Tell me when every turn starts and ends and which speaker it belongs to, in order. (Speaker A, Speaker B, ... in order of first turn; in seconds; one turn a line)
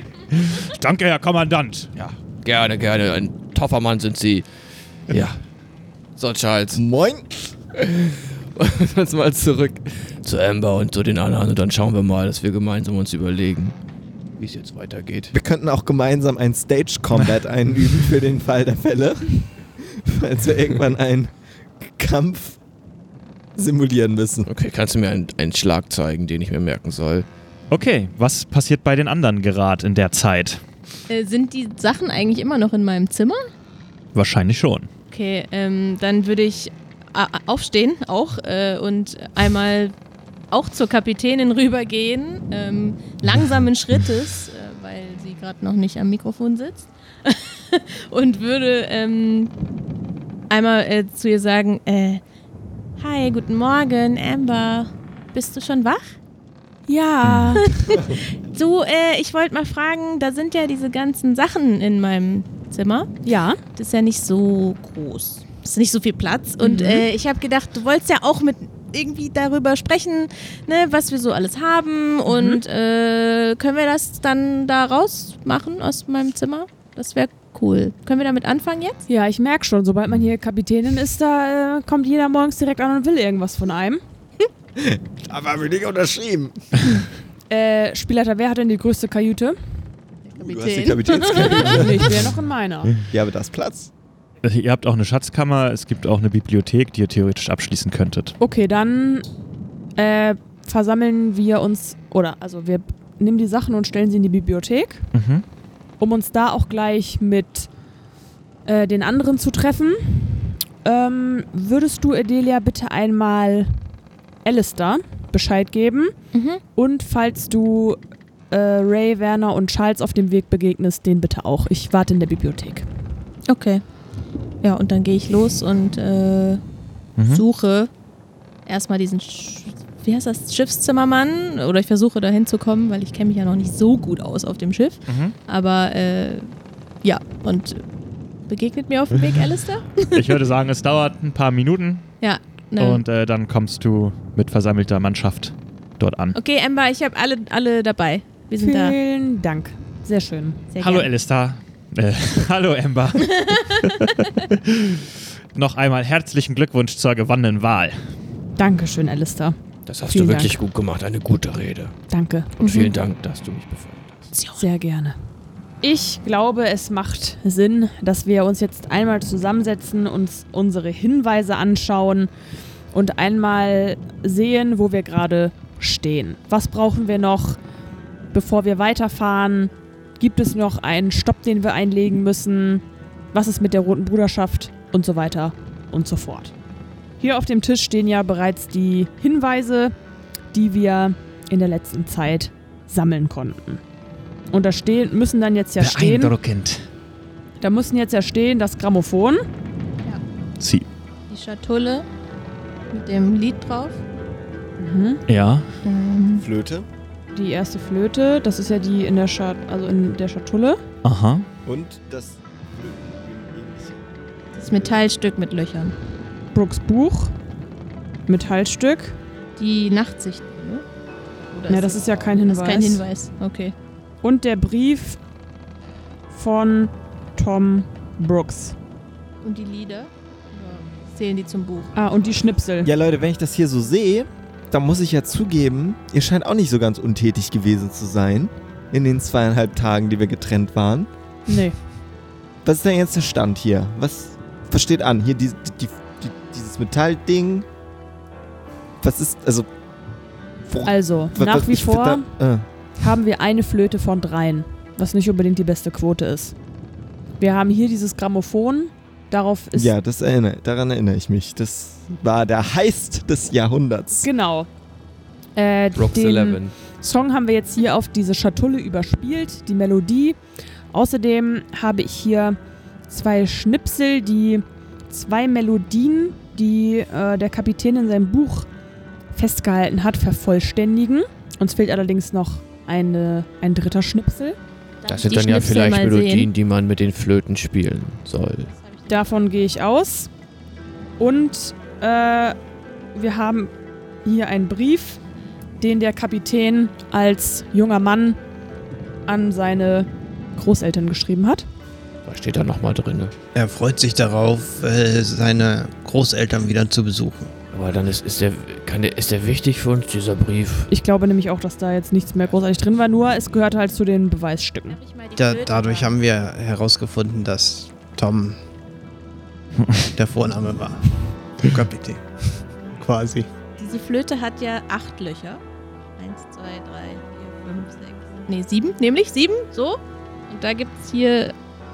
Speaker A: 0.3-1.9
Speaker B: 1.9-4.4
Speaker B: 5.1-5.4
Speaker B: 6.2-6.8
Speaker C: 6.7-7.3
Speaker B: 7.7-13.7
Speaker B: 14.4-15.3
Speaker C: 15.3-21.3
Speaker C: 21.8-22.6
Speaker C: 23.6-24.5
Speaker B: 24.4-27.3
Speaker A: 27.7-30.6
Speaker D: 31.1-33.5
Speaker A: 34.1-34.9
Speaker D: 35.1-39.9
Speaker D: 40.5-49.5
Speaker D: 50.5-52.2
Speaker D: 53.0-56.1
Speaker E: 56.9-57.7
Speaker A: 57.2-57.6
Speaker D: 57.6-63.1
Speaker E: 63.2-63.6
Speaker D: 63.7-79.0
Speaker E: 66.6-67.1
Speaker E: 72.3-72.6
Speaker E: 79.1-84.0
Speaker C: 84.8-86.6
Speaker E: 87.5-89.6
Speaker D: 90.3-91.9
Speaker C: 90.3-92.3
Speaker E: 91.7-93.0
Speaker C: 93.1-93.9
Speaker A: 94.4-98.3
Speaker E: 98.4-99.2
Speaker E: 100.0-105.0
Speaker A: 105.1-105.4
Speaker E: 106.0-107.7
Speaker E: 108.7-113.8
Speaker E: 114.4-116.1
Speaker D: 116.3-116.6
Speaker E: 116.7-118.0
Speaker E: 118.5-122.8
Speaker D: 123.5-123.8
Speaker D: 124.6-126.6
Speaker A: 127.2-127.4
Speaker D: 127.2-127.9
Speaker D: 128.7-136.5
Speaker A: 135.1-135.3
Speaker D: 137.0-137.8
Speaker D: 138.5-140.2
Speaker A: 140.1-142.1
Speaker D: 142.2-143.0
Speaker A: 142.8-146.3
Speaker D: 146.3-148.9
Speaker E: 148.6-150.6
Speaker D: 150.7-151.1
Speaker A: 150.8-158.0
Speaker E: 158.6-159.6
Speaker B: 159.8-161.9
Speaker E: 160.1-160.6
Speaker E: 162.1-162.6
Speaker D: 162.6-162.9
Speaker B: 162.6-164.3
Speaker E: 164.5-165.2
Speaker E: 165.8-172.3
Speaker E: 172.9-177.6
Speaker E: 178.3-186.5
Speaker E: 187.2-189.9
Speaker E: 190.5-193.8
Speaker E: 194.5-196.3
Speaker A: 195.8-196.8
Speaker E: 197.6-199.4
Speaker A: 200.6-200.8
Speaker D: 201.3-202.1
Speaker D: 202.9-204.0
Speaker E: 204.8-205.2
Speaker A: 205.3-205.7
Speaker D: 205.8-206.5
Speaker C: 206.4-206.8
Speaker E: 207.3-210.8
Speaker A: 211.0-211.5
Speaker C: 211.7-214.0
Speaker D: 214.6-215.9
Speaker E: 216.5-217.3
Speaker E: 218.3-219.2
Speaker D: 219.6-220.8
Speaker D: 221.5-223.7
Speaker E: 221.7-223.0
Speaker E: 224.2-225.2
Speaker E: 226.3-228.7
Speaker D: 229.4-231.9
Speaker E: 231.9-232.9
Speaker C: 232.8-241.1
Speaker E: 241.5-241.8
Speaker C: 242.6-247.6
Speaker C: 249.0-249.7
Speaker C: 250.7-252.6
Speaker E: 250.8-252.3
Speaker E: 253.0-256.5
Speaker E: 257.4-259.9
Speaker C: 259.7-264.2
Speaker E: 264.1-264.7
Speaker E: 265.6-270.4
Speaker B: 265.9-266.7
Speaker E: 270.9-272.6
Speaker E: 273.1-278.7
Speaker E: 279.3-284.6
Speaker D: 285.0-286.5
Speaker B: 285.1-288.7
Speaker D: 288.7-289.4
Speaker E: 289.1-290.3
Speaker E: 291.2-292.6
Speaker E: 293.1-293.7
Speaker E: 294.2-295.2
Speaker E: 295.8-298.4
Speaker E: 299.2-301.6
Speaker B: 302.2-303.3
Speaker F: 303.5-307.5
Speaker B: 307.7-310.9
Speaker E: 310.9-315.0
Speaker D: 314.9-316.2
Speaker F: 315.4-318.6
Speaker F: 320.1-322.2
Speaker F: 322.9-323.5
Speaker D: 323.8-325.6
Speaker D: 326.2-331.5